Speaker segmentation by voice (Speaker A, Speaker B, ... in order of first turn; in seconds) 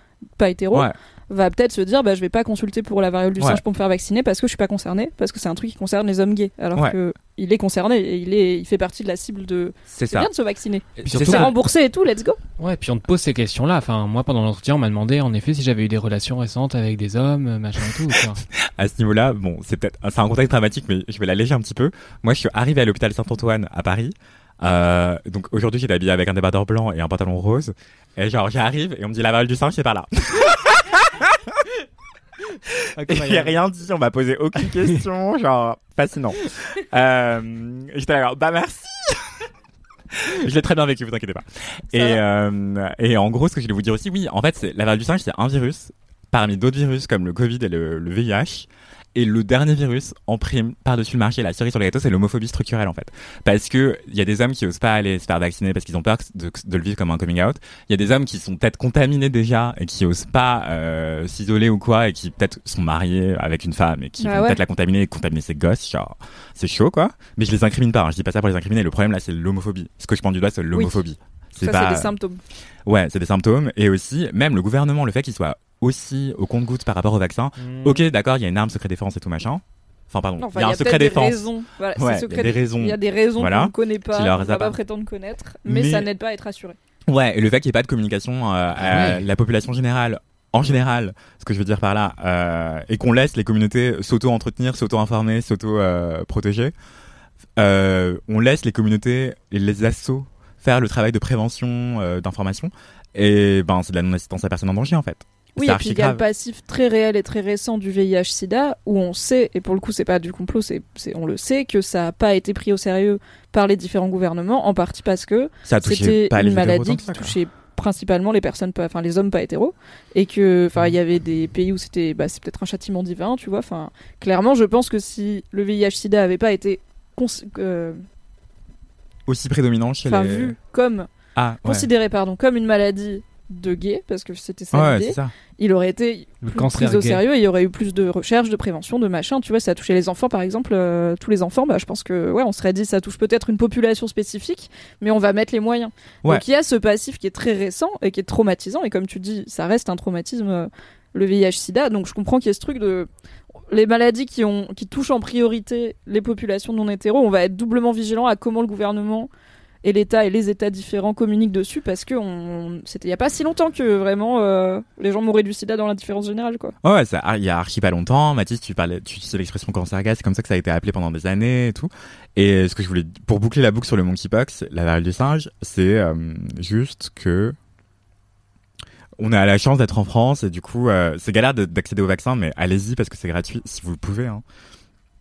Speaker A: 0.4-12.4, 41.9-42.2, 64.2-64.6, 70.7-71.0, 71.6-72.4, 80.4-86.8, 105.6-128.0, 130.1-131.1, 131.6-153.1, 153.7-159.3, 159.8-166.7
Speaker B: 9.9-10.3, 11.0-11.5, 18.6-31.7, 32.7-39.2, 40.1-72.1, 72.9-84.8, 85.7-86.1, 87.1-96.7, 97.6-106.2, 115.7-117.4, 129.3-130.6, 131.3-131.9, 134.7-135.3, 166.8-177.6, 179.2-184.4
Speaker C: 11.1-11.5, 12.6-18.4, 33.0-33.5, 77.6-78.0, 88.8-89.2, 136.4-137.2